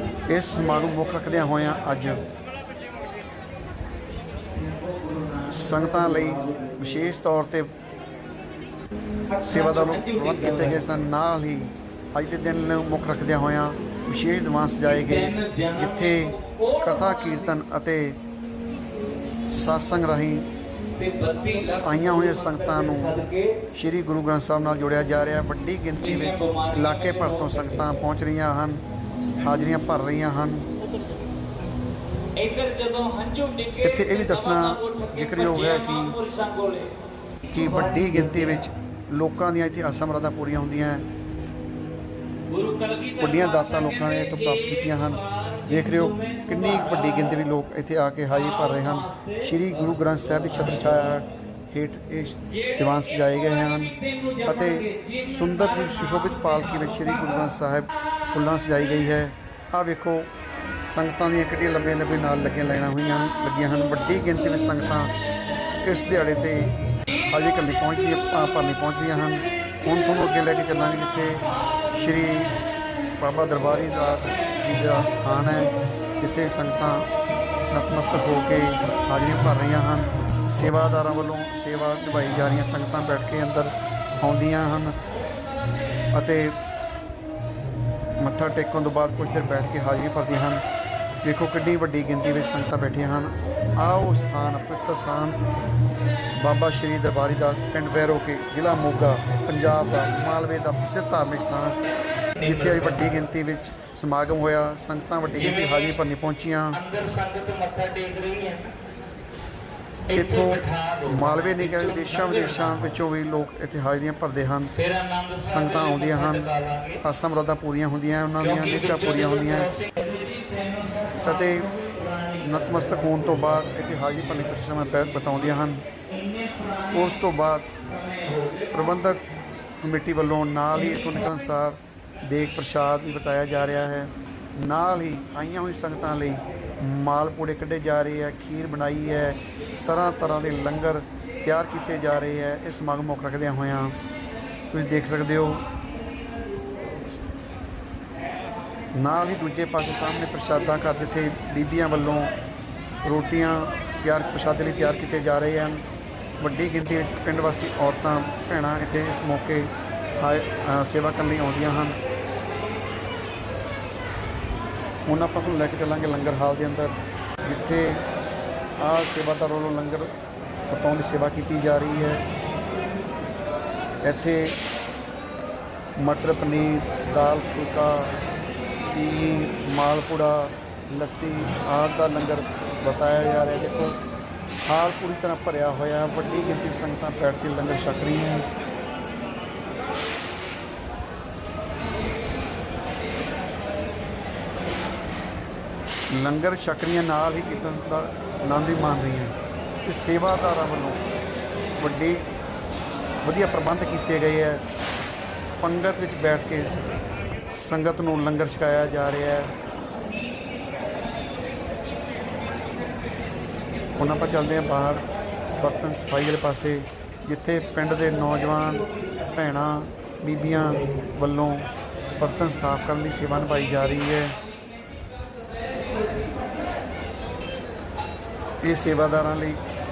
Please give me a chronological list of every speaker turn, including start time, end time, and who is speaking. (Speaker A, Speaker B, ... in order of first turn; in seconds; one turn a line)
Speaker A: 0.3-2.2
Speaker B: 0.7-1.8
Speaker B: 4.6-6.6
Speaker A: 5.5-7.7
Speaker B: 9.3-10.8
Speaker A: 9.5-18.2
Speaker B: 14.9-17.5
Speaker A: 19.5-20.4
Speaker B: 21.0-23.6
Speaker A: 21.6-23.2
Speaker A: 23.7-28.8
Speaker B: 26.0-27.8
Speaker A: 29.4-30.7
Speaker B: 32.4-36.9
Speaker A: 33.8-36.2
Speaker A: 37.5-41.1
Speaker B: 42.5-47.2
Speaker A: 43.2-60.3
Speaker B: 48.5-49.4
Speaker B: 54.2-56.3
Speaker A: 60.9-65.1
Speaker A: 65.8-66.7
Speaker A: 67.3-71.4
Speaker A: 72.0-72.5
Speaker A: 73.2-77.1
Speaker A: 77.7-85.0
Speaker A: 86.1-86.6
Speaker A: 88.2-90.6
Speaker A: 91.2-95.4
Speaker A: 96.4-101.8
Speaker A: 102.4-106.8
Speaker C: 106.8-108.7
Speaker C: 110.1-112.5
Speaker A: 110.1-114.7
Speaker C: 114.8-117.0
Speaker A: 115.4-119.7
Speaker C: 119.5-120.2
Speaker A: 121.2-121.7
Speaker A: 122.4-125.8
Speaker A: 126.9-127.7
Speaker C: 128.0-128.5
Speaker A: 128.7-129.2
Speaker A: 129.8-144.0
Speaker A: 144.7-145.7
Speaker A: 148.9-152.3
Speaker A: 153.0-155.8
Speaker A: 156.4-162.0
Speaker A: 165.1-168.0
Speaker A: 168.8-170.1
Speaker A: 170.7-172.2
Speaker A: 174.0-174.6
Speaker A: 176.0-178.1
Speaker A: 178.9-184.0
Speaker A: 184.7-188.5
Speaker A: 196.1-201.0
Speaker A: 201.8-202.2
Speaker A: 203.2-204.6
Speaker A: 205.6-206.7
Speaker A: 207.6-209.5
Speaker A: 214.0-215.0
Speaker A: 215.6-221.7
Speaker A: 222.2-224.3
Speaker A: 228.6-229.6